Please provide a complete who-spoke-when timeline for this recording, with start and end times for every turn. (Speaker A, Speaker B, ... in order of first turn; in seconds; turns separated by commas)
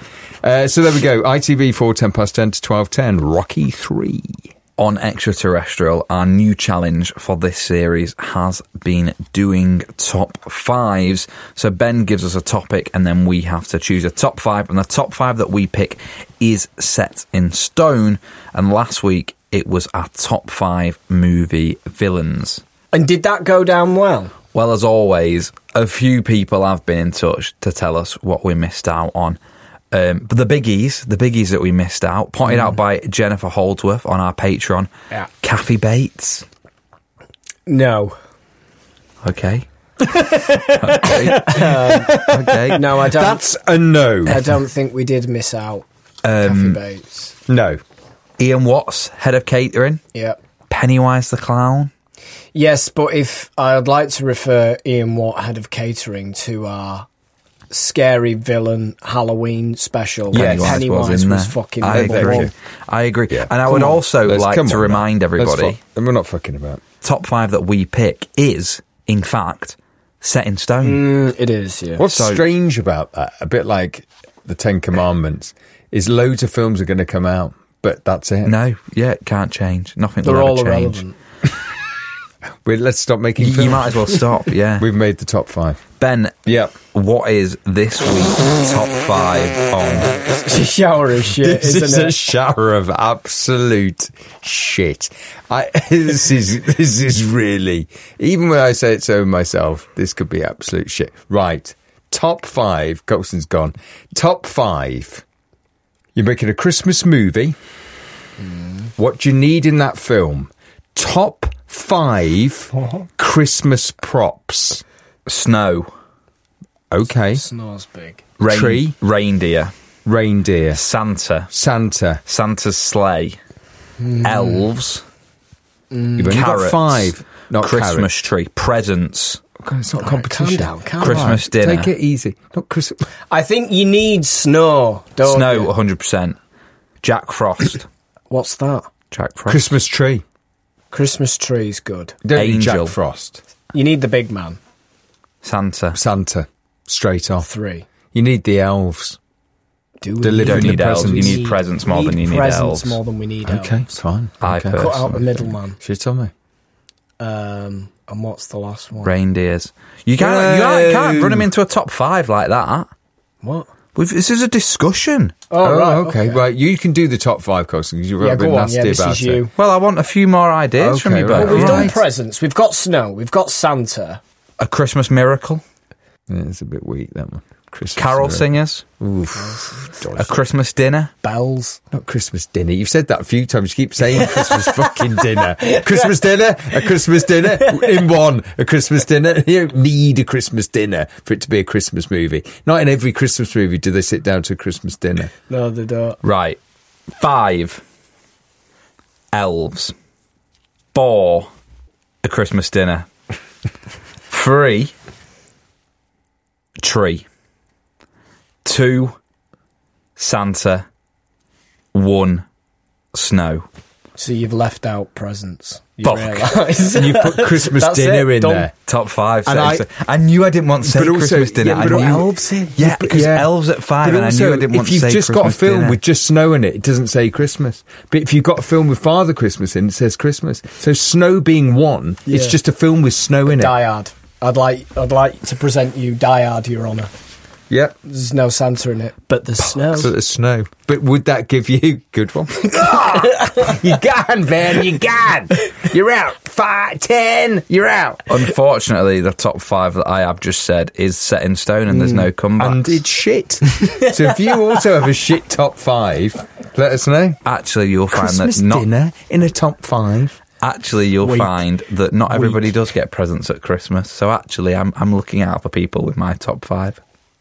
Speaker A: 0.4-4.5, Speaker B: 4.8-22.6, Speaker C: 22.9-24.3, Speaker B: 24.5-29.4, Speaker B: 29.9-34.9, Speaker B: 35.4-36.4, Speaker C: 37.7-38.1, Speaker B: 39.2-39.6, Speaker A: 40.0-44.5, Speaker B: 40.8-42.8, Speaker C: 41.0-42.2, Speaker C: 42.7-43.4, Speaker C: 44.2-45.8, Speaker B: 46.2-46.8, Speaker C: 46.4-47.3, Speaker A: 47.5-47.8, Speaker B: 48.4-50.0, Speaker B: 50.7-51.9, Speaker C: 52.5-57.1, Speaker C: 57.7-62.5, Speaker B: 60.3-65.8, Speaker A: 60.3-60.8, Speaker A: 61.9-62.5, Speaker A: 63.3-66.8, Speaker B: 67.0-71.1, Speaker C: 70.8-72.0, Speaker A: 72.0-78.5, Speaker B: 72.0-72.4, Speaker B: 78.4-81.0, Speaker C: 80.2-81.2, Speaker A: 82.6-84.2, Speaker B: 83.4-84.9, Speaker A: 84.8-85.8, Speaker B: 86.0-90.4, Speaker A: 86.5-86.8, Speaker C: 90.4-92.2, Speaker A: 91.3-105.2, Speaker A: 106.1-107.6, Speaker C: 108.4-108.9, Speaker A: 109.0-114.8, Speaker C: 112.7-113.0, Speaker B: 115.3-115.9, Speaker A: 116.9-117.4, Speaker C: 117.3-118.2, Speaker B: 118.4-119.7, Speaker A: 118.4-119.0, Speaker A: 120.0-120.8, Speaker B: 120.7-121.5, Speaker A: 121.5-122.2, Speaker B: 122.3-123.4, Speaker C: 124.0-124.7, Speaker B: 124.2-125.0, Speaker C: 125.9-126.4, Speaker A: 126.2-128.1, Speaker B: 126.3-129.4, Speaker A: 129.6-133.0, Speaker C: 130.0-131.4, Speaker B: 131.0-131.9, Speaker C: 133.3-135.7, Speaker B: 135.2-136.4, Speaker B: 137.0-137.9, Speaker C: 138.3-138.9, Speaker B: 139.1-139.7, Speaker A: 139.5-140.2, Speaker C: 140.9-142.2, Speaker A: 142.2-143.4, Speaker B: 142.3-142.9, Speaker C: 143.7-144.6, Speaker B: 145.4-146.0, Speaker A: 145.9-147.5, Speaker C: 147.4-147.8, Speaker A: 148.1-149.2, Speaker C: 150.0-153.8, Speaker A: 150.2-151.4, Speaker B: 150.4-153.0, Speaker A: 153.4-156.3, Speaker B: 154.4-155.2, Speaker C: 154.8-155.8, Speaker C: 157.2-159.1, Speaker B: 159.0-162.9, Speaker A: 160.2-161.5, Speaker C: 163.4-163.7, Speaker B: 163.9-165.3, Speaker C: 165.5-166.4, Speaker A: 165.6-169.4, Speaker C: 168.2-169.5, Speaker B: 169.6-171.9, Speaker A: 170.8-172.0, Speaker C: 171.3-174.2, Speaker B: 174.6-175.6, Speaker A: 176.3-180.3, Speaker B: 177.9-178.8, Speaker C: 179.3-180.0, Speaker B: 180.2-181.1, Speaker C: 181.2-181.8, Speaker A: 181.9-195.3, Speaker C: 184.3-186.1, Speaker C: 195.5-196.2, Speaker B: 196.2-196.6, Speaker B: 197.2-197.8, Speaker B: 199.3-199.9, Speaker B: 200.9-201.5, Speaker B: 202.2-203.1, Speaker B: 204.3-204.9, Speaker B: 206.8-207.2, Speaker B: 208.6-209.2, Speaker B: 210.2-210.8, Speaker B: 211.9-212.4, Speaker B: 213.1-213.7, Speaker C: 214.2-218.7, Speaker B: 216.0-216.3, Speaker A: 216.9-218.7, Speaker B: 218.9-222.2, Speaker A: 219.4-219.8, Speaker A: 220.8-233.8, Speaker C: 221.6-222.8, Speaker B: 222.8-226.0, Speaker C: 232.3-232.6, Speaker C: 233.5-237.1, Speaker A: 237.7-237.9, Speaker C: 238.0-240.1, Speaker A: 239.6-248.4, Speaker B: 248.3-252.9, Speaker C: 251.9-252.2, Speaker A: 252.6-257.4, Speaker B: 257.4-258.9, Speaker A: 258.1-260.4, Speaker B: 260.6-267.0, Speaker C: 261.2-261.6, Speaker A: 262.3-262.6